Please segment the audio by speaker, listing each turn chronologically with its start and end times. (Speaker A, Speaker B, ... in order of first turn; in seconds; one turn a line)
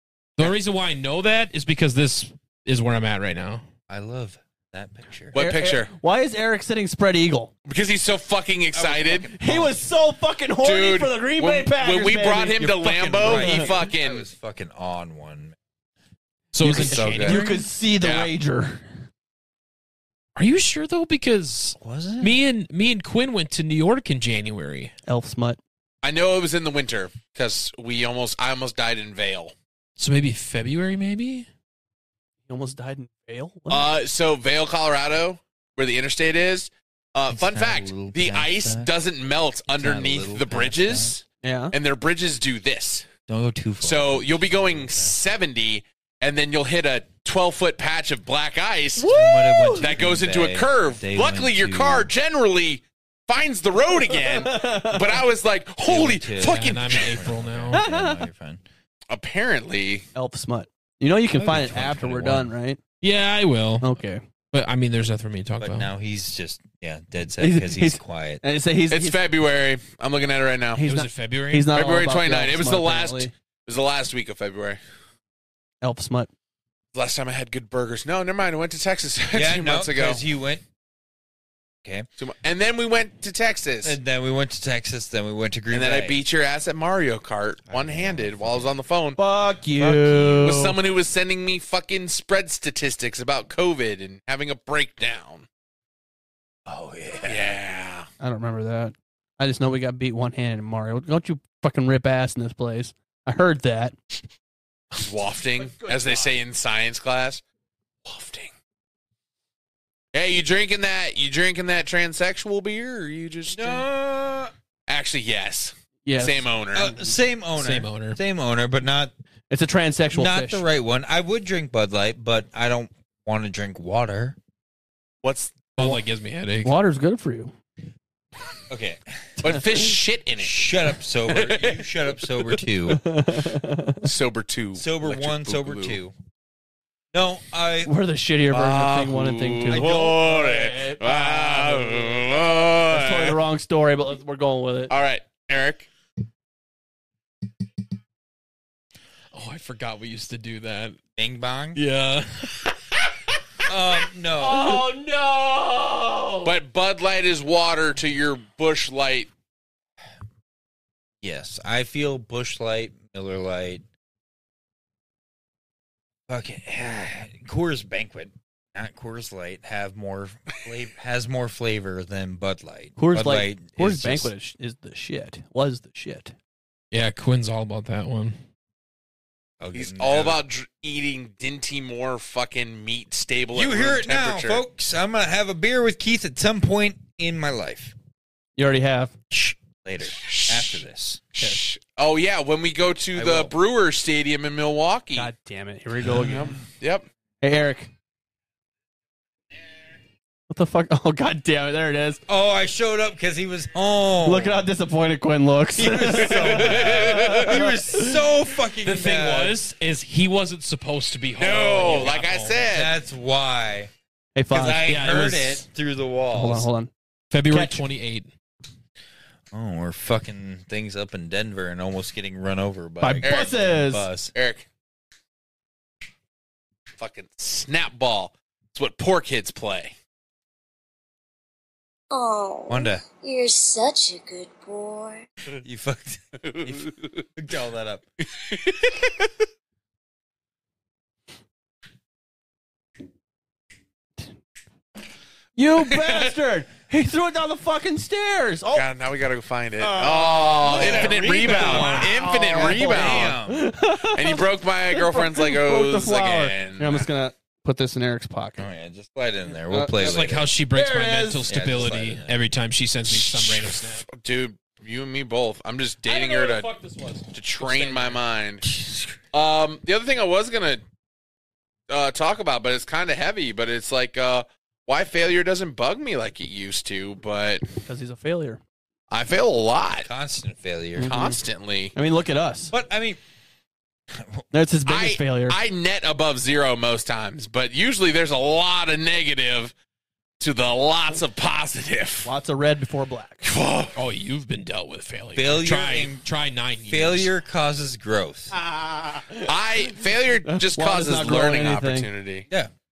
Speaker A: 0.4-3.6
Speaker B: 3.9-5.4
Speaker C: 5.3-5.9
Speaker D: 5.3-7.5
Speaker C: 7.7-9.3
Speaker B: 8.7-9.8
Speaker D: 9.3-13.7
Speaker C: 10.6-14.3
Speaker B: 13.1-15.6
Speaker A: 16.5-17.7
Speaker D: 16.6-18.8
Speaker B: 16.7-17.4
Speaker C: 16.8-17.4
Speaker C: 18.0-18.3
Speaker A: 20.4-24.9
Speaker B: 21.8-22.4
Speaker D: 25.1-25.6
Speaker C: 26.0-29.5
Speaker A: 30.0-31.5
Speaker D: 32.5-33.9
Speaker C: 33.7-43.1
Speaker B: 37.3-38.9
Speaker B: 39.7-41.2
Speaker D: 41.4-41.8
Speaker B: 43.3-45.2
Speaker C: 43.8-49.1
Speaker D: 49.0-50.0
Speaker B: 49.1-52.1
Speaker C: 49.8-57.2
Speaker D: 54.1-55.2
Speaker B: 55.9-58.6
Speaker A: 56.4-57.8
Speaker D: 57.7-58.2
Speaker C: 59.1-60.1
Speaker D: 60.1-62.8
Speaker B: 61.4-62.5
Speaker A: 63.0-64.0
Speaker D: 63.8-64.2
Speaker A: 64.5-65.9
Speaker B: 65.6-68.4
Speaker D: 67.4-69.2
Speaker C: 68.9-70.8
Speaker D: 70.8-73.3
Speaker A: 70.8-71.7
Speaker C: 71.7-74.8
Speaker D: 75.8-76.3
Speaker C: 76.9-80.2
Speaker B: 79.3-80.6
Speaker C: 82.2-84.0
Speaker B: 83.8-86.2
Speaker C: 85.7-89.2
Speaker B: 87.7-88.8
Speaker D: 89.2-90.8
Speaker B: 89.8-90.6
Speaker C: 90.4-95.5
Speaker B: 96.7-97.6
Speaker C: 97.2-98.1
Speaker D: 98.2-104.0
Speaker C: 104.9-107.4
Speaker D: 105.6-106.4
Speaker C: 108.0-108.5
Speaker C: 110.1-113.8
Speaker B: 113.5-114.5
Speaker C: 114.9-117.0
Speaker D: 116.0-117.0
Speaker B: 116.7-119.1
Speaker A: 117.6-118.2
Speaker D: 119.5-120.7
Speaker B: 120.1-124.4
Speaker C: 125.2-125.8
Speaker A: 125.8-126.8
Speaker D: 126.6-127.5
Speaker B: 128.7-129.0
Speaker C: 129.4-130.8
Speaker B: 130.4-133.0
Speaker C: 131.3-131.8
Speaker D: 132.9-134.1
Speaker C: 134.0-136.0
Speaker B: 134.8-136.1
Speaker B: 137.1-137.9
Speaker D: 137.8-142.3
Speaker C: 138.5-143.4
Speaker B: 139.7-140.4
Speaker D: 142.9-144.9
Speaker C: 144.9-145.9
Speaker A: 149.3-151.0
Speaker B: 151.2-151.8
Speaker A: 151.8-152.7
Speaker B: 153.7-154.9
Speaker A: 154.4-156.5
Speaker C: 156.4-159.3
Speaker B: 161.2-163.8
Speaker B: 166.3-174.3
Speaker D: 173.0-176.3
Speaker A: 176.9-178.4
Speaker B: 179.6-180.4
Speaker C: 179.7-184.6
Speaker B: 183.5-187.9
Speaker D: 188.6-189.1
Speaker B: 189.3-191.2
Speaker C: 190.1-190.8
Speaker C: 191.3-195.3
Speaker B: 193.2-193.5
Speaker D: 195.2-196.6
Speaker C: 196.2-197.1
Speaker D: 197.4-197.9
Speaker D: 200.5-202.2
Speaker B: 202.3-204.7
Speaker D: 204.2-208.2
Speaker B: 205.8-209.6
Speaker C: 206.1-207.6
Speaker A: 208.8-212.7
Speaker C: 211.4-212.9
Speaker B: 212.7-213.9
Speaker D: 214.4-214.9
Speaker B: 214.5-216.7
Speaker A: 214.8-215.7
Speaker D: 216.3-216.9
Speaker A: 217.3-218.3
Speaker D: 217.5-217.8
Speaker B: 219.5-224.3
Speaker D: 223.0-224.1
Speaker C: 223.2-223.6
Speaker C: 224.3-224.7
Speaker C: 227.0-229.9
Speaker E: 232.1-235.3
Speaker B: 232.7-233.1
Speaker B: 235.6-238.0
Speaker C: 236.4-237.1
Speaker C: 238.3-239.3
Speaker D: 245.6-248.9
Speaker C: 245.8-246.2
Speaker C: 248.7-253.4
Speaker D: 249.8-258.7
Speaker B: 250.6-253.6
Speaker A: 251.0-251.9
Speaker C: 254.0-257.1
Speaker B: 258.6-260.5
Speaker D: 259.7-261.5
Speaker A: 260.0-264.1
Speaker B: 261.5-262.4
Speaker C: 263.1-266.7
Speaker A: 266.0-268.2
Speaker C: 267.3-268.6
Speaker B: 268.6-269.2
Speaker C: 269.3-270.8
Speaker C: 271.9-277.6
Speaker D: 277.9-278.6
Speaker C: 279.1-280.1
Speaker B: 280.0-281.1
Speaker D: 281.0-281.4
Speaker C: 281.1-281.9
Speaker D: 281.9-282.7
Speaker B: 282.7-283.2
Speaker B: 284.1-284.4
Speaker D: 284.5-285.6
Speaker C: 284.9-289.7
Speaker C: 290.4-292.3
Speaker D: 292.2-293.4
Speaker C: 293.4-293.9
Speaker A: 293.9-297.3
Speaker B: 295.4-296.2
Speaker B: 296.9-298.5
Speaker D: 298.5-299.6
Speaker C: 299.5-302.5
Speaker D: 300.5-302.1